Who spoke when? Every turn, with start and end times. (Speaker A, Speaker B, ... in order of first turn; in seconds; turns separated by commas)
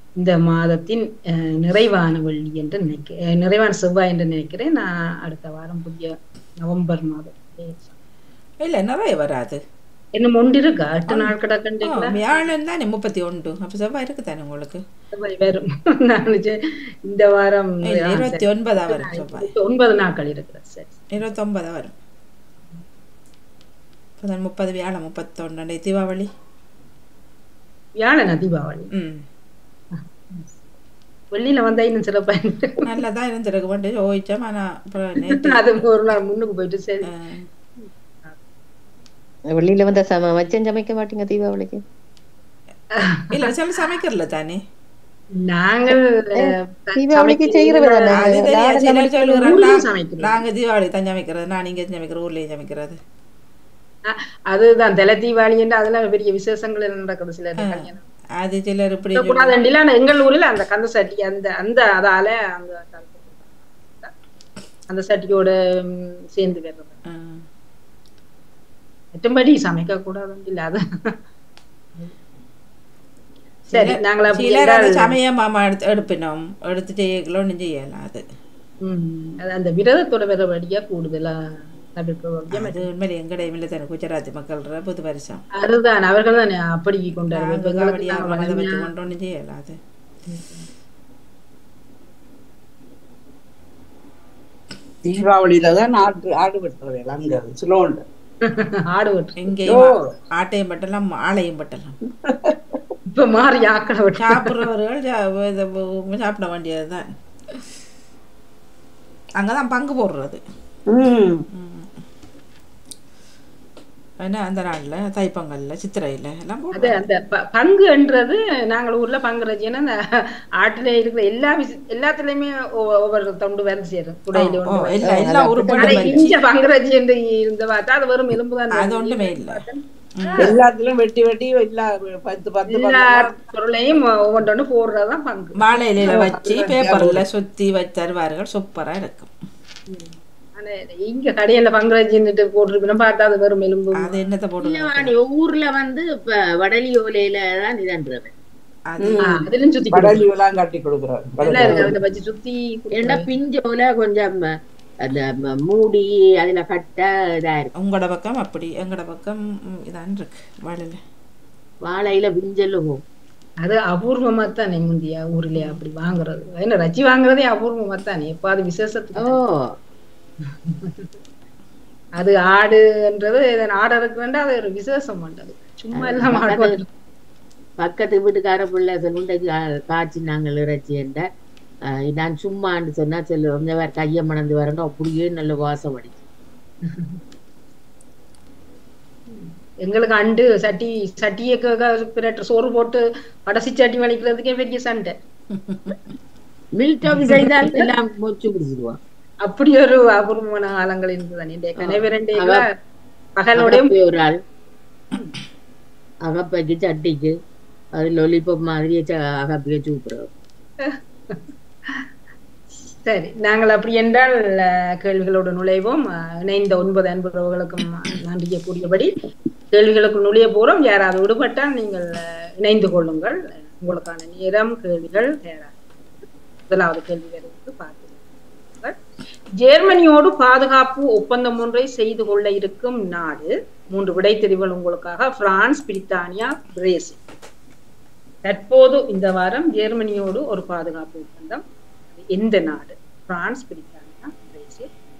Speaker A: 0.2-7.9, Speaker B: 8.6-9.6, Speaker A: 10.1-12.2, Speaker B: 11.9-14.8, Speaker A: 15.1-21.1, Speaker B: 17.8-19.5, Speaker B: 21.1-21.9, Speaker B: 24.2-26.3, Speaker A: 28.0-28.9, Speaker B: 28.9-29.2, Speaker A: 29.9-30.5, Speaker A: 31.3-32.9, Speaker B: 32.9-35.6, Speaker A: 35.3-37.1, Speaker B: 37.1-37.5, Speaker A: 37.8-38.4, Speaker C: 39.5-41.8, Speaker A: 43.0-43.5, Speaker B: 43.3-44.6, Speaker A: 45.4-50.4, Speaker C: 46.4-49.1, Speaker B: 48.1-53.0, Speaker A: 54.0-58.0, Speaker B: 57.6-59.5, Speaker A: 59.1-64.1, Speaker A: 64.9-66.9, Speaker B: 67.1-67.4, Speaker A: 69.1-71.1, Speaker B: 73.7-78.2, Speaker A: 73.7-75.1, Speaker A: 78.8-81.4, Speaker A: 81.9-82.9, Speaker B: 82.5-85.4, Speaker A: 85.6-88.9, Speaker B: 87.3-89.8, Speaker A: 90.3-90.7, Speaker D: 95.0-98.0, Speaker A: 98.4-99.4, Speaker B: 99.4-102.0, Speaker D: 99.7-100.1, Speaker D: 102.3-102.8, Speaker A: 103.1-104.5, Speaker B: 104.2-107.1, Speaker B: 109.4-110.4, Speaker D: 110.9-111.4, Speaker B: 111.5-111.9, Speaker B: 114.2-117.0, Speaker A: 116.7-125.2, Speaker B: 124.3-126.3, Speaker D: 125.0-126.2, Speaker A: 125.8-130.5, Speaker B: 128.7-129.6, Speaker B: 130.2-130.5, Speaker D: 130.4-133.3, Speaker A: 132.7-136.3, Speaker B: 135.6-139.3, Speaker D: 136.0-137.2, Speaker A: 139.9-144.2, Speaker B: 144.0-145.1, Speaker E: 144.6-148.3, Speaker B: 148.9-149.3, Speaker D: 149.0-151.9, Speaker A: 149.2-150.2, Speaker A: 151.4-153.3, Speaker E: 151.6-151.9, Speaker E: 152.9-157.7, Speaker B: 157.8-161.0, Speaker E: 161.8-163.0, Speaker A: 163.6-169.4, Speaker B: 165.6-165.8, Speaker E: 169.2-169.7, Speaker A: 170.5-171.1, Speaker A: 172.2-176.8, Speaker E: 176.0-176.8, Speaker E: 177.8-181.2, Speaker E: 181.9-186.2, Speaker A: 186.8-187.2, Speaker A: 189.3-195.1, Speaker B: 195.7-195.9, Speaker E: 196.8-199.0, Speaker A: 199.4-202.6, Speaker E: 201.8-202.6, Speaker A: 203.4-203.9, Speaker E: 203.6-204.4, Speaker E: 206.2-207.3, Speaker E: 207.9-210.3, Speaker A: 210.8-212.1, Speaker A: 213.0-219.1, Speaker A: 219.7-225.7, Speaker A: 226.7-228.2, Speaker A: 229.6-237.2, Speaker A: 238.4-241.6, Speaker A: 242.2-244.9